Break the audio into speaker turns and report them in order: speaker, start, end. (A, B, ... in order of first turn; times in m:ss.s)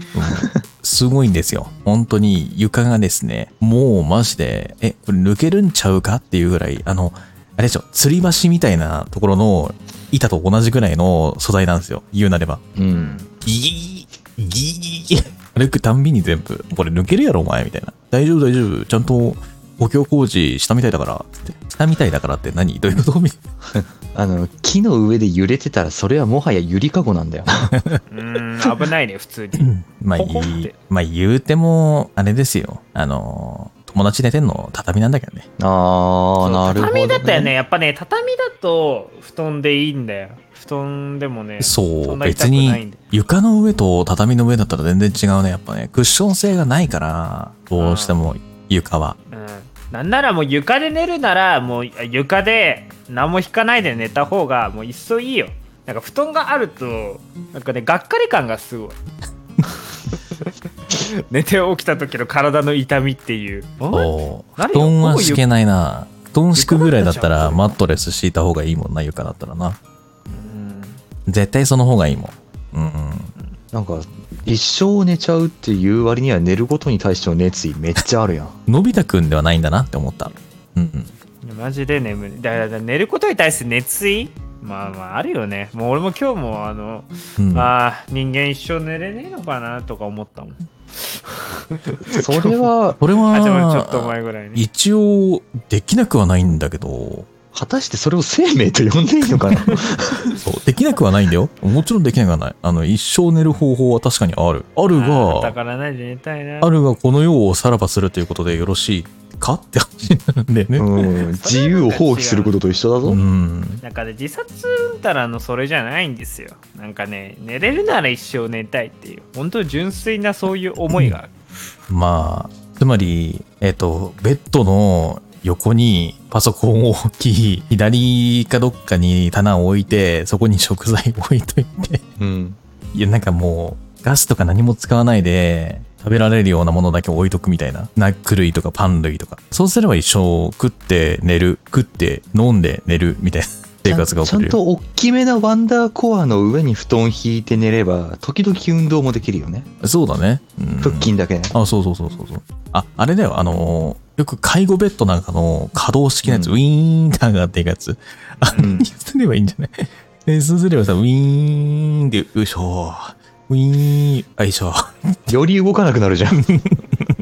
0:00.1-0:12.6 A
0:12.8-0:13.3 B
0:12.9-0:13.2 C
0:13.4-0:23.4 A
0:23.7-0:27.7 B
0:27.7-0:28.0 A
0:28.1-0:30.7 C
0:29.6-0:35.4 A
0:35.6-0:37.5 B
0:36.4-0:43.0 C
0:41.6-0:49.2 A
0:47.8-0:48.2 C
0:49.3-0:59.0 C
1:00.9-1:05.4 C
1:03.9-1:09.8 A
1:06.6-1:07.7 C
1:10.3-1:11.0 C
1:11.3-1:13.3 A
1:13.7-1:18.6 B
1:18.7-1:21.1 A
1:21.4-1:30.6 C
1:27.4-1:27.7 A
1:31.7-1:32.5 C
1:32.1-1:33.0 B
1:33.0-1:37.3 A
1:33.3-1:34.6 C
1:37.5-1:40.4 B
1:40.4-1:45.6 A
1:44.9-1:46.7 C
1:46.6-1:51.1 A
1:50.8-1:53.2 B
1:51.4-1:52.6 C
1:53.0-1:53.8 A
1:53.8-2:01.3 C
2:01.9-2:12.0 A
2:12.2-2:12.6 B
2:12.9-2:24.6 A
2:23.9-2:29.7 B
2:29.8-2:45.2 A
2:30.8-2:31.5 B
2:36.2-2:36.6 B
2:38.5-2:38.8 C
2:38.6-2:38.9 B
2:45.3-2:46.6 B